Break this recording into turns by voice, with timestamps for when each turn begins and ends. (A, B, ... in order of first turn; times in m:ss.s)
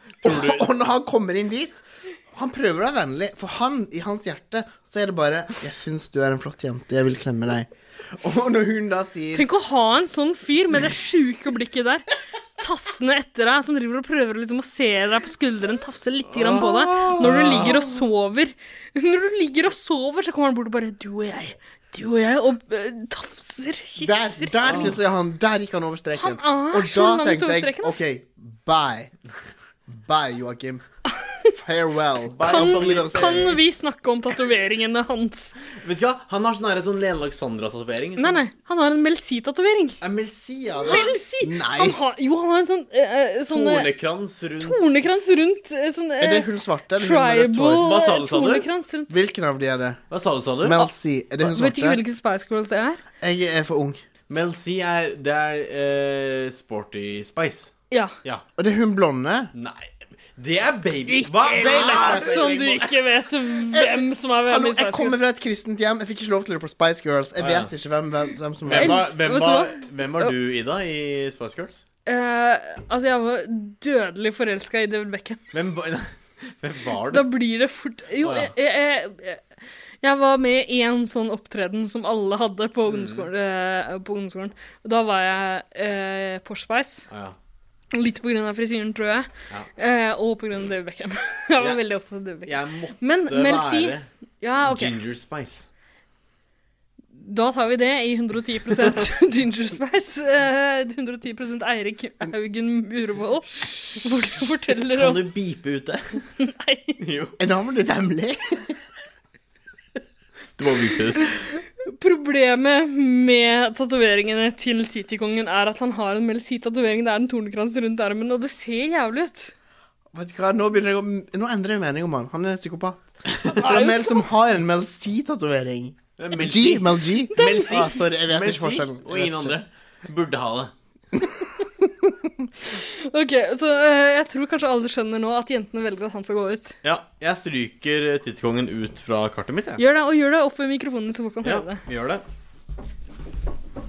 0:00.2-0:00.7 A
0:00.2-0:09.5 B
0:09.3-0:12.1 C
0:12.6-0:24.6 C
0:16.4-0:17.8 A
0:17.2-0:17.7 B
0:24.0-0:29.1 B
0:24.6-0:24.9 A
0:26.2-0:28.0 C
0:29.9-0:30.8 B
0:31.6-0:33.5 B
0:32.4-0:33.6 A
0:32.5-0:35.6 C
0:35.8-0:38.4 A
0:38.2-0:40.0 C
0:40.0-0:41.1 A
0:40.8-0:43.9 C
0:40.8-0:42.0 B
0:43.5-0:45.1 A
0:44.6-0:49.2 C
0:46.2-0:47.9 B
0:47.8-0:48.7 A
0:49.1-0:50.0 B
0:50.1-0:50.8 A
0:50.6-0:52.0 B
0:51.4-0:53.0 C
0:53.2-0:54.0 B
0:54.3-0:57.7 A
0:58.6-0:59.5 B
0:59.6-1:02.9 A
1:01.1-1:05.2 C
1:01.3-1:02.8 B
1:03.7-1:09.0 B
1:07.4-1:07.7 A
1:08.7-1:11.8 A
1:08.7-1:10.3 C
1:12.1-1:15.4 C
1:15.5-1:17.3 A
1:17.1-1:19.4 C
1:18.2-1:18.5 A
1:20.0-1:27.1 C
1:22.9-1:23.3 A
1:27.1-1:27.4 A
1:27.9-1:35.0 C
1:32.4-1:34.1 A
1:34.6-1:35.7 A
1:37.2-1:45.2 C
1:44.9-1:46.2 A
1:46.4-1:47.0 C
1:47.0-1:47.4 A
1:47.4-1:48.8 B
1:50.6-1:51.4 A
1:51.8-1:59.5 C
2:00.1-2:09.6 B
2:03.6-2:04.3 C
2:06.2-2:10.7 A
2:07.4-2:07.7 C
2:12.8-2:16.7 C
2:16.8-2:19.8 A
2:19.8-2:21.8 C
2:21.4-2:22.2 A